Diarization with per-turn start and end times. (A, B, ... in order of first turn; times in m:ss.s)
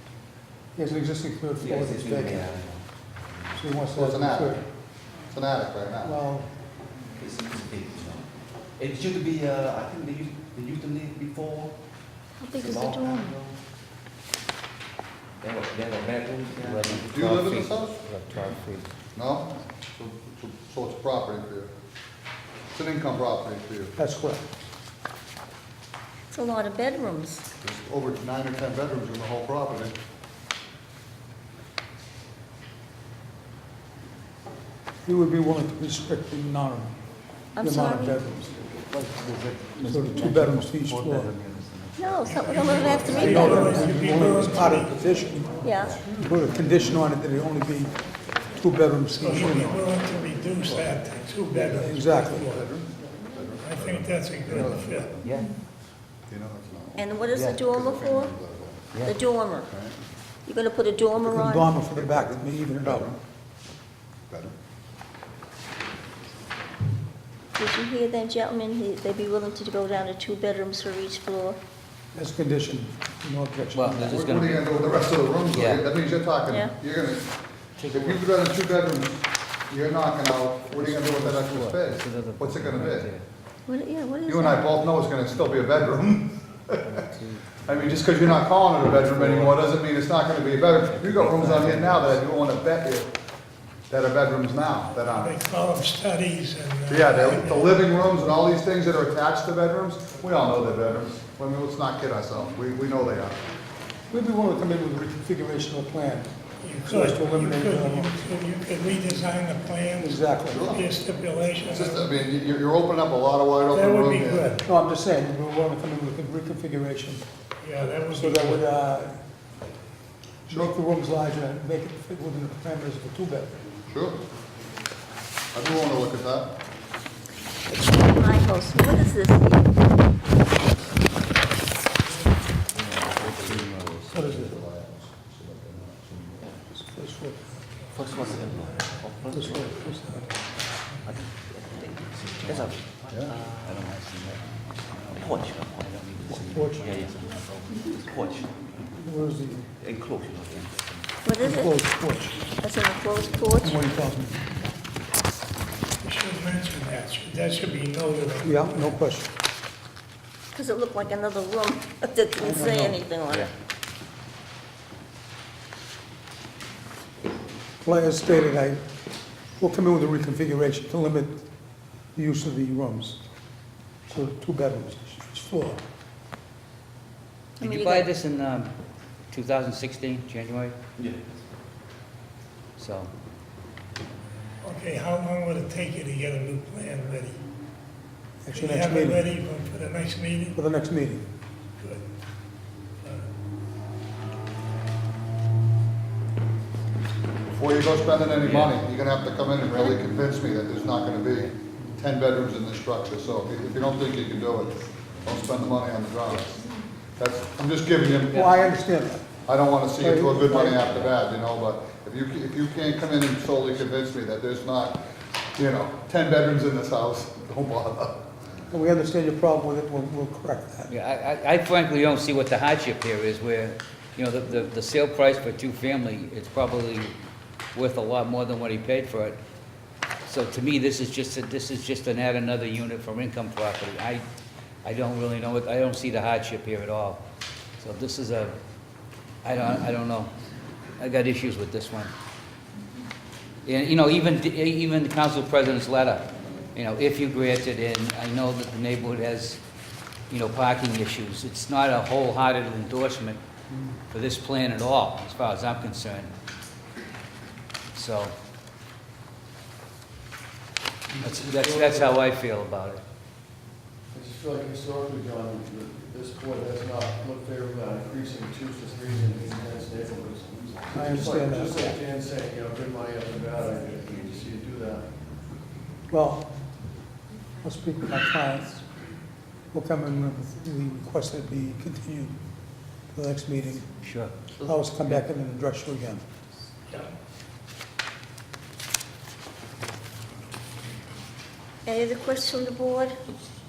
0:00.8-0:02.5 A
0:01.6-0:02.8 B
0:03.5-0:04.6 A
0:03.9-0:04.6 C
0:05.3-0:06.2 C
0:06.0-0:06.5 A
0:07.2-0:11.8 B
0:12.4-0:13.4 D
0:12.5-0:13.6 B
0:15.4-0:17.2 B
0:16.6-0:18.9 E
0:17.1-0:18.0 C
0:19.1-0:21.7 C
0:22.7-0:23.9 C
0:24.0-0:24.4 A
0:26.3-0:27.4 D
0:27.6-0:29.9 C
0:35.0-0:36.9 A
0:37.6-0:38.2 D
0:37.6-0:38.6 A
0:38.9-0:43.1 E
0:39.9-0:41.3 A
0:42.0-0:43.7 D
0:42.4-0:43.3 C
0:42.6-0:45.1 F
0:43.0-0:49.9 A
0:45.6-0:46.0 D
0:45.8-0:46.4 E
0:49.1-0:52.8 F
0:51.5-0:52.5 A
0:52.4-0:55.3 C
0:53.6-0:55.1 F
0:55.2-0:55.5 E
0:56.3-0:59.1 C
0:56.9-0:58.3 D
0:58.9-0:59.2 E
0:59.0-0:59.7 D
0:59.7-1:00.0 C
1:00.4-1:01.8 D
1:01.2-1:03.1 A
1:01.9-1:03.2 C
1:04.3-1:04.5 C
1:07.6-1:11.6 D
1:12.1-1:14.3 A
1:13.7-1:15.0 E
1:14.0-1:17.3 C
1:15.5-1:15.8 E
1:16.4-1:16.8 D
1:17.8-1:18.3 E
1:17.9-1:23.1 C
1:20.7-1:23.2 E
1:23.7-1:24.8 D
1:24.2-1:26.9 C
1:26.8-1:28.1 E
1:27.6-1:33.1 C
1:28.9-1:29.7 E
1:30.9-1:32.2 E
1:33.9-1:35.4 C
1:35.1-1:37.9 F
1:36.9-1:43.4 C
1:44.1-1:46.3 A
1:46.6-1:52.2 F
1:46.8-1:48.1 A
1:50.0-1:50.8 A
1:50.5-1:51.0 C
1:51.6-1:54.6 C
1:53.7-1:54.6 F
1:54.6-1:57.2 A
1:57.6-1:58.6 F
1:58.1-1:59.1 A
2:00.5-2:03.6 A
2:00.5-2:00.7 C
2:03.9-2:04.2 C
2:05.5-2:06.5 C
2:07.8-2:09.7 D
2:12.7-2:16.6 C
2:14.1-2:14.5 A
2:16.7-2:17.7 A
2:17.9-2:19.8 B
2:19.3-2:20.3 A
2:21.0-2:23.9 B
2:22.4-2:22.8 E
2:23.1-2:23.4 C
2:23.3-2:28.0 E
2:25.2-2:25.9 B
2:26.3-2:26.9 A
2:26.8-2:28.6 B
2:29.0-2:29.7 A
2:29.8-2:30.9 B
2:31.2-2:31.8 D
2:31.4-2:32.5 A
2:32.5-2:33.8 D
2:33.6-2:34.4 A
2:36.0-2:39.0 F
2:38.4-2:39.3 A
2:40.5-2:43.5 D
2:42.4-2:43.0 A
2:47.8-2:48.8 A
2:49.6-2:51.4 A
2:52.1-2:53.2 A
2:54.1-2:55.8 A
2:57.6-2:58.1 D
2:57.6-2:58.7 E
2:59.3-3:00.8 E
3:01.0-3:01.3 B
3:02.8-3:03.1 E
3:04.6-3:07.4 F
3:08.4-3:09.2 A
3:08.5-3:10.6 F
3:10.5-3:11.2 A
3:11.8-3:12.0 F
3:13.0-3:13.3 F
3:17.5-3:26.6 C
3:18.4-3:18.8 E
3:27.2-3:28.5 C
3:28.3-3:29.3 A
3:28.3-3:28.6 E
3:29.4-3:35.0 C
3:30.0-3:31.0 A
3:35.5-3:38.2 C
3:38.7-3:40.9 A
3:40.9-3:47.1 E
3:47.7-3:49.4 E
3:50.2-3:54.2 E
3:54.8-3:57.2 E
3:57.8-3:58.6 E
3:59.4-4:00.3 E
4:01.0-4:02.1 E
4:03.6-4:09.6 E
4:10.3-4:13.4 E
4:14.1-4:16.3 E
4:17.9-4:18.3 E
4:21.1-4:22.2 G
4:21.2-4:23.0 E
4:24.1-4:35.1 G
4:30.9-4:32.0 A
4:36.1-4:36.5 A
4:37.6-4:38.8 A
4:39.7-4:42.4 A
4:43.1-4:43.8 A
4:44.0-4:44.4 E
4:44.6-4:46.2 A
4:51.8-4:53.2 D